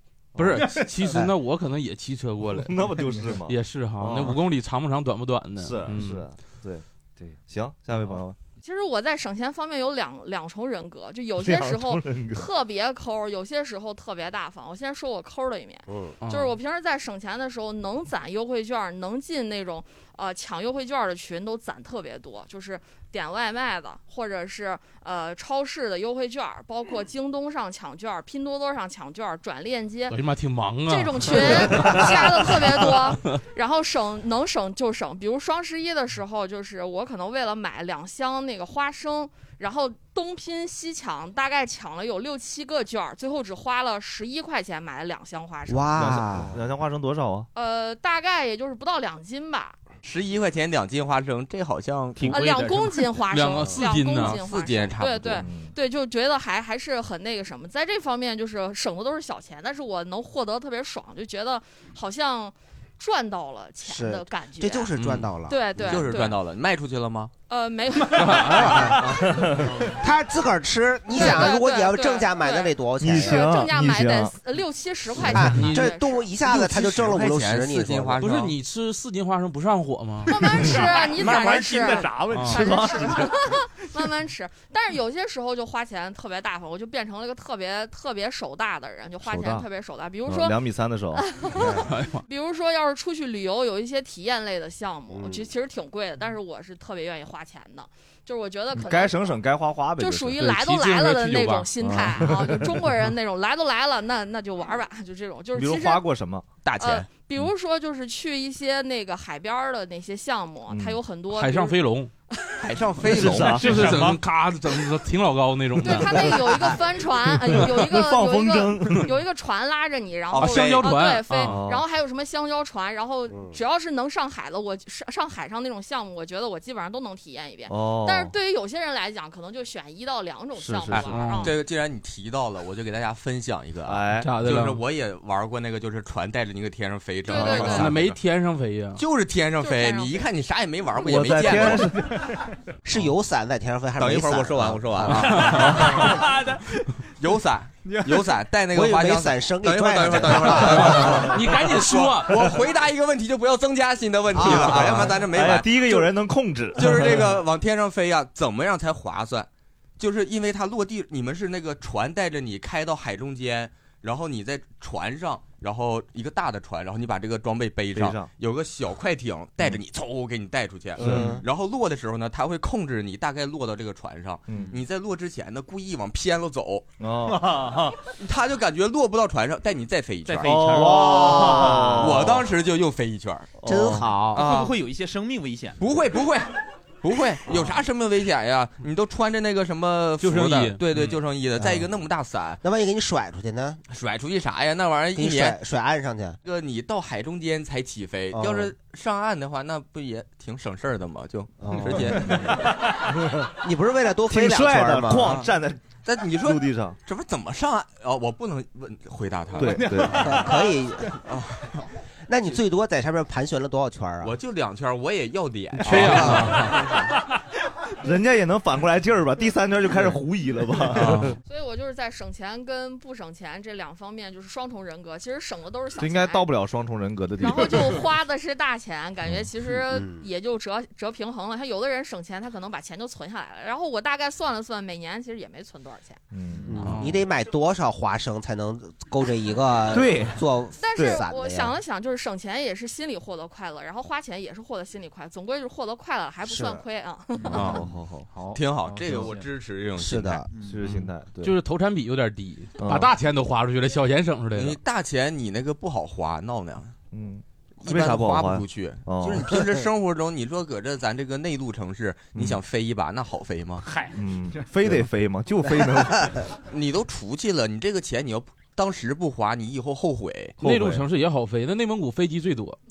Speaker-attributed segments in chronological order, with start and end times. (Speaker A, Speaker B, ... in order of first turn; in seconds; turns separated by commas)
Speaker A: 0.3-0.6, Speaker B: 0.4-2.9, Speaker A: 2.6-4.4, Speaker B: 3.5-6.3, Speaker A: 5.6-8.4, Speaker C: 8.6-30.2, Speaker A: 11.4-12.4, Speaker D: 15.9-16.2, Speaker B: 16.2-16.5, Speaker B: 30.1-33.4, Speaker C: 30.9-45.9, Speaker D: 45.7-46.6, Speaker A: 46.0-47.5, Speaker C: 47.5-49.8, Speaker E: 50.0-52.5, Speaker F: 52.2-52.5, Speaker C: 52.3-64.9, Speaker B: 53.3-54.4, Speaker E: 54.2-55.4, Speaker A: 55.4-55.7, Speaker D: 63.8-66.0, Speaker B: 65.0-65.3, Speaker C: 65.5-66.3, Speaker E: 65.8-67.3, Speaker C: 67.5-68.8, Speaker B: 68.1-69.0, Speaker F: 68.2-68.6, Speaker A: 69.0-69.7, Speaker D: 70.0-73.5, Speaker C: 71.1-76.3, Speaker A: 73.0-74.3, Speaker D: 75.2-78.2, Speaker B: 75.5-75.9, Speaker E: 76.4-78.5, Speaker B: 78.2-80.7, Speaker C: 80.2-90.5, Speaker F: 80.7-83.3, Speaker B: 82.3-82.7, Speaker A: 82.5-83.1, Speaker A: 89.2-89.7, Speaker A: 90.2-91.2, Speaker C: 91.2-99.4, Speaker B: 91.9-92.2, Speaker D: 95.1-95.5, Speaker A: 98.7-100.4, Speaker C: 100.0-106.0, Speaker B: 100.4-101.7, Speaker A: 101.8-102.7, Speaker A: 105.5-106.5, Speaker E: 106.6-107.1, Speaker C: 106.8-111.8, Speaker A: 110.7-111.0, Speaker B: 111.3-112.1, Speaker E: 112.6-114.0, Speaker A: 113.1-113.7, Speaker B: 113.6-116.5, Speaker F: 113.6-114.2, Speaker C: 115.8-131.5, Speaker A: 117.5-119.1, Speaker E: 120.3-120.9, Speaker B: 120.3-121.6, Speaker A: 121.5-121.8, Speaker D: 123.3-123.6, Speaker A: 127.7-128.3, Speaker A: 130.6-131.1, Speaker B: 130.9-131.5, Speaker E: 131.4-138.2, Speaker A: 133.8-134.3, Speaker B: 134.2-134.8, Speaker C: 137.3-137.9, Speaker B: 137.3-139.0, Speaker E: 139.0-141.9, Speaker C: 139.6-140.2, Speaker A: 141.0-142.2, Speaker D: 142.8-145.3, Speaker E: 144.0-146.2, Speaker F: 145.3-146.9, Speaker E: 147.2-156.1, Speaker F: 147.8-148.3, Speaker D: 148.7-151.3, Speaker B: 151.2-152.5, Speaker A: 154.3-157.3, Speaker D: 154.3-155.0, Speaker E: 156.8-176.8, Speaker A: 167.9-168.3, Speaker A: 171.0-171.4, Speaker D: 171.0-171.4, Speaker A: 174.5-174.8, Speaker A: 177.0-177.8, Speaker F: 177.3-177.9, Speaker E: 178.2-183.5, Speaker F: 180.2-182.0, Speaker A: 180.4-182.5, Speaker A: 183.6-184.1, Speaker D: 183.7-184.5, Speaker F: 184.3-185.8, Speaker E: 184.3-184.7, Speaker E: 185.8-192.6, Speaker B: 190.2-190.8, Speaker D: 191.6-191.9, Speaker D: 192.6-193.8, Speaker E: 193.9-195.6, Speaker D: 195.1-196.4, Speaker E: 196.4-202.6, Speaker D: 198.3-198.7, Speaker D: 201.6-202.3, Speaker A: 201.9-202.5, Speaker D: 203.6-205.3, Speaker A: 204.3-207.0, Speaker E: 205.2-205.5, Speaker E: 206.0-210.1, Speaker A: 209.5-210.4, Speaker F: 209.6-210.4, Speaker D: 210.2-211.1, Speaker E: 211.2-211.8, Speaker D: 212.3-214.3, Speaker E: 214.2-217.1, Speaker B: 215.8-216.8, Speaker A: 218.0-221.3, Speaker C: 221.4-226.4, Speaker A: 226.0-228.0, Speaker C: 227.4-236.2, Speaker D: 229.8-230.2, Speaker A: 236.3-237.0, Speaker D: 236.7-241.8, Speaker B: 236.8-237.2, Speaker A: 239.9-240.4, Speaker C: 240.8-247.7, Speaker A: 240.9-241.2, Speaker D: 246.4-246.8, Speaker F: 247.4-249.5, Speaker E: 247.5-247.8, Speaker A: 247.5-248.3, Speaker E: 248.5-250.4, Speaker D: 249.9-250.5, Speaker F: 250.5-251.1, Speaker A: 250.6-251.6, Speaker B: 251.4-254.8, Speaker A: 252.8-253.1, Speaker E: 254.5-256.9, Speaker A: 257.1-259.5, Speaker E: 257.8-263.8, Speaker F: 263.8-264.7, Speaker A: 264.1-266.4, Speaker E: 266.7-270.6, Speaker A: 270.6-271.0, Speaker B: 270.6-272.8